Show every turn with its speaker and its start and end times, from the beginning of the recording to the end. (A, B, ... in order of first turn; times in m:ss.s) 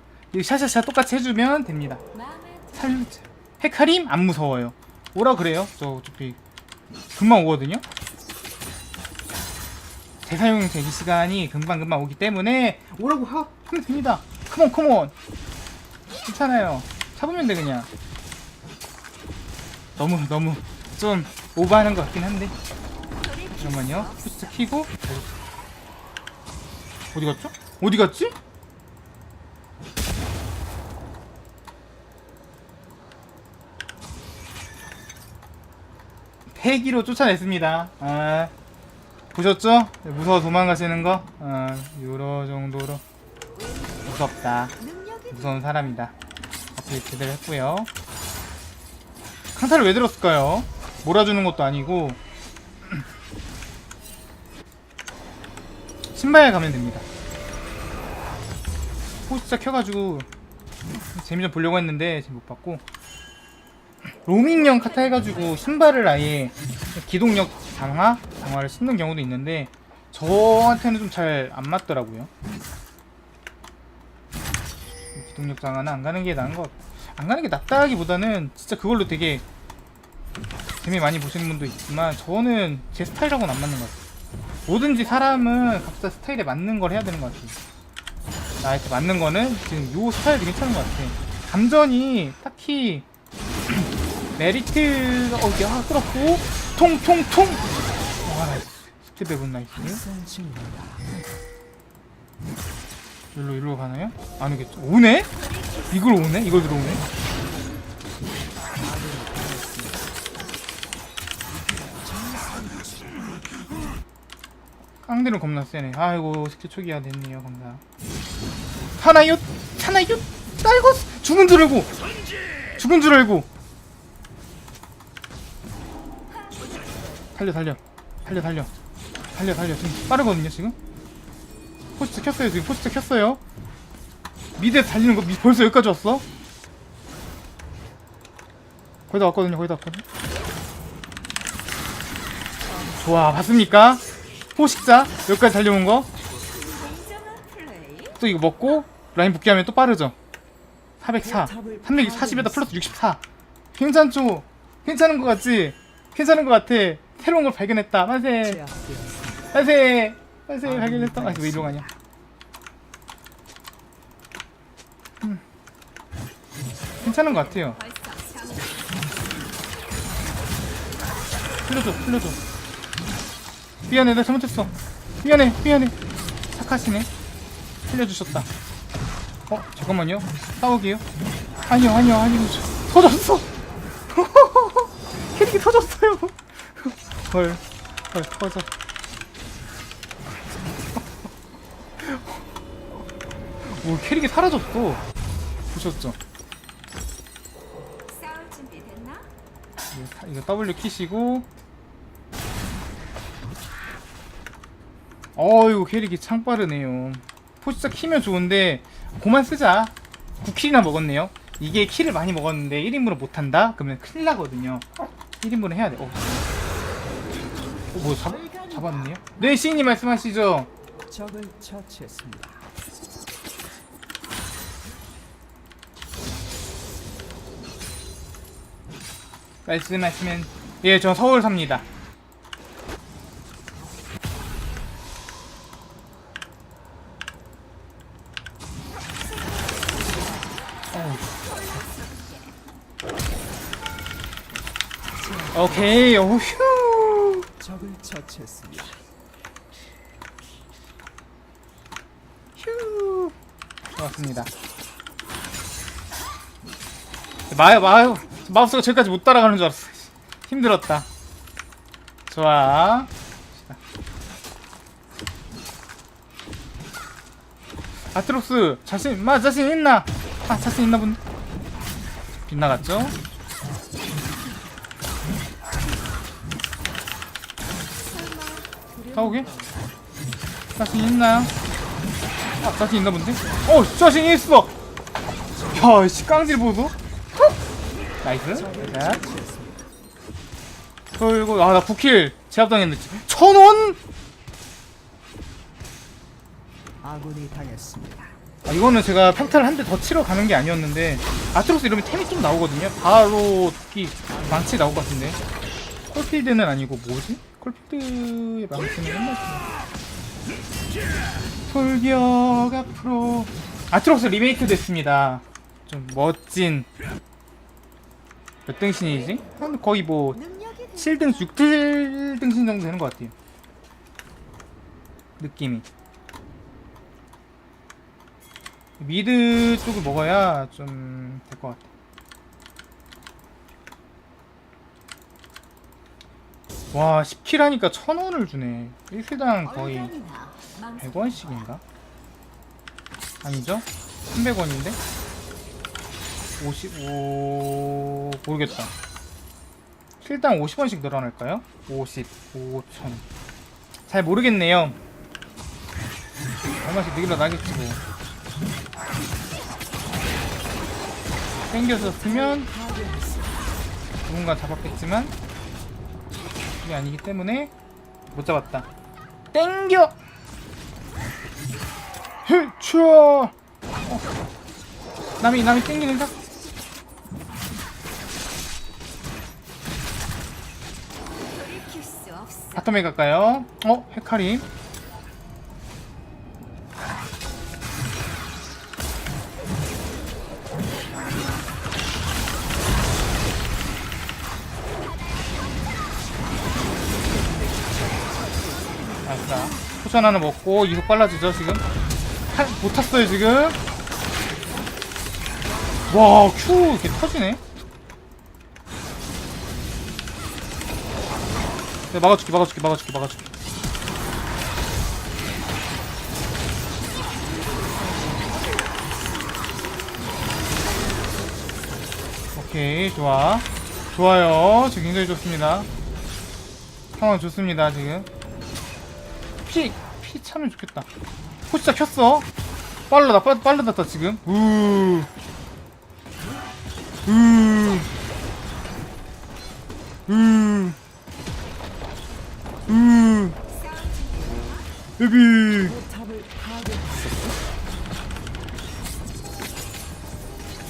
0:00.3-0:02.0 A
0:02.1-0:03.1 B
0:02.7-0:06.4 A
0:07.1-0:07.8 A
0:10.2-0:15.1 A
0:16.2-0:17.9 A
0:20.0-0:22.5 A
0:23.2-0:24.6 B
0:23.6-0:25.3 A
0:27.1-0:28.3 A
0:36.5-0:38.5 A
0:39.3-0:43.0 A
0:43.5-0:46.0 B
0:44.0-0:44.7 A
0:45.3-0:46.1 A
0:46.8-0:47.9 A
0:49.5-0:52.2 A
0:56.1-0:57.0 A
0:59.3-1:00.3 A
1:01.1-1:02.8 A
1:04.2-1:12.3 A
1:04.5-1:06.6 B
1:15.1-1:19.4 A
1:20.8-1:24.0 A
1:24.7-1:27.5 A
1:28.6-1:33.0 A
1:33.7-1:37.6 A
1:38.2-1:40.0 A
1:39.7-1:41.1 C
1:43.3-1:45.3 A
1:45.3-1:47.0 B
1:45.9-1:47.0 A
1:48.8-1:50.2 C
1:51.4-1:53.5 C
1:55.0-1:57.8 A
1:59.0-2:01.9 A
2:02.8-2:03.5 A
2:06.3-2:07.3 B
2:07.3-2:08.7 A
2:09.3-2:10.8 A
2:12.0-2:13.4 A
2:14.6-2:16.2 A
2:19.1-2:20.0 A
2:22.6-2:23.8 C
2:23.0-2:24.0 A
2:24.6-2:26.1 A
2:26.5-2:28.2 B
2:28.2-2:30.1 A
2:31.0-2:33.2 A
2:31.1-2:33.0 C
2:33.7-2:38.6 A
2:38.4-2:39.6 C
2:39.5-2:41.9 A
2:40.6-2:42.0 C
2:47.0-2:49.2 B
2:47.0-2:47.8 A
2:51.6-2:52.4 A
2:53.9-2:54.7 A
2:55.2-2:56.0 A
2:56.5-2:57.1 A
2:57.9-2:58.5 A
2:59.5-3:01.0 A
3:01.7-3:03.5 A
3:04.1-3:08.7 A
3:12.0-3:12.4 A
3:13.6-3:15.0 A
3:15.7-3:16.2 A
3:18.0-3:19.3 B
3:19.9-3:21.5 A
3:25.4-3:34.9 A
3:35.4-3:36.5 A
3:37.9-3:40.7 A
3:38.1-3:40.0 B
3:41.1-3:42.6 C
3:49.6-3:51.8 A
3:59.1-4:02.6 B
4:00.9-4:01.8 A
4:05.1-4:06.2 C
4:05.5-4:07.5 A
4:07.6-4:09.0 C
4:12.6-4:13.3 A
4:14.0-4:14.5 A
4:17.5-4:21.1 A
4:17.5-4:18.8 B
4:22.3-4:23.8 A
4:28.1-4:31.2 A
4:32.5-4:33.2 A
4:38.0-4:39.9 B
4:39.1-4:39.5 A
4:40.8-4:41.5 A
4:42.6-4:44.7 A
4:45.5-4:46.7 C
4:45.7-4:46.9 A
4:48.2-4:49.2 A
4:48.5-4:49.9 C
4:51.2-4:54.0 A
4:57.0-4:58.3 C
4:58.6-5:05.4 A
5:04.3-5:05.0 C
5:06.1-5:09.6 A
5:11.7-5:16.9 A
5:18.7-5:20.4 A
5:19.0-5:21.6 B
5:21.0-5:23.3 A
5:25.4-5:25.8 A
5:29.0-5:31.9 A
5:36.9-5:40.1 A
5:39.6-5:41.7 B
5:41.0-5:41.8 A
5:43.4-5:45.0 A
5:46.6-5:48.9 A
5:50.2-5:53.2 A
5:54.1-5:55.0 A
5:56.8-5:58.0 A
6:01.7-6:02.7 A
6:01.9-6:03.8 C
6:04.2-6:05.3 A
6:06.8-6:07.7 A
6:08.3-6:08.9 A
6:09.5-6:10.2 A
6:12.4-6:13.5 A
6:15.4-6:16.4 A
6:21.4-6:22.9 B
6:22.7-6:24.6 A
6:36.9-6:39.2 C
6:38.9-6:40.0 B
6:39.2-6:41.8 A
6:42.5-6:43.8 A
6:45.7-6:46.4 C
6:46.1-6:47.6 A
6:52.1-6:53.5 A
6:57.6-6:58.8 C
7:02.6-7:05.9 A
7:07.2-7:08.3 A
7:09.6-7:11.1 A
7:11.7-7:12.5 A
7:13.1-7:15.3 A
7:17.2-7:18.1 A
7:20.3-7:21.0 A
7:22.9-7:23.6 A
7:23.6-7:24.9 B
7:25.2-7:26.0 A
7:25.7-7:27.7 C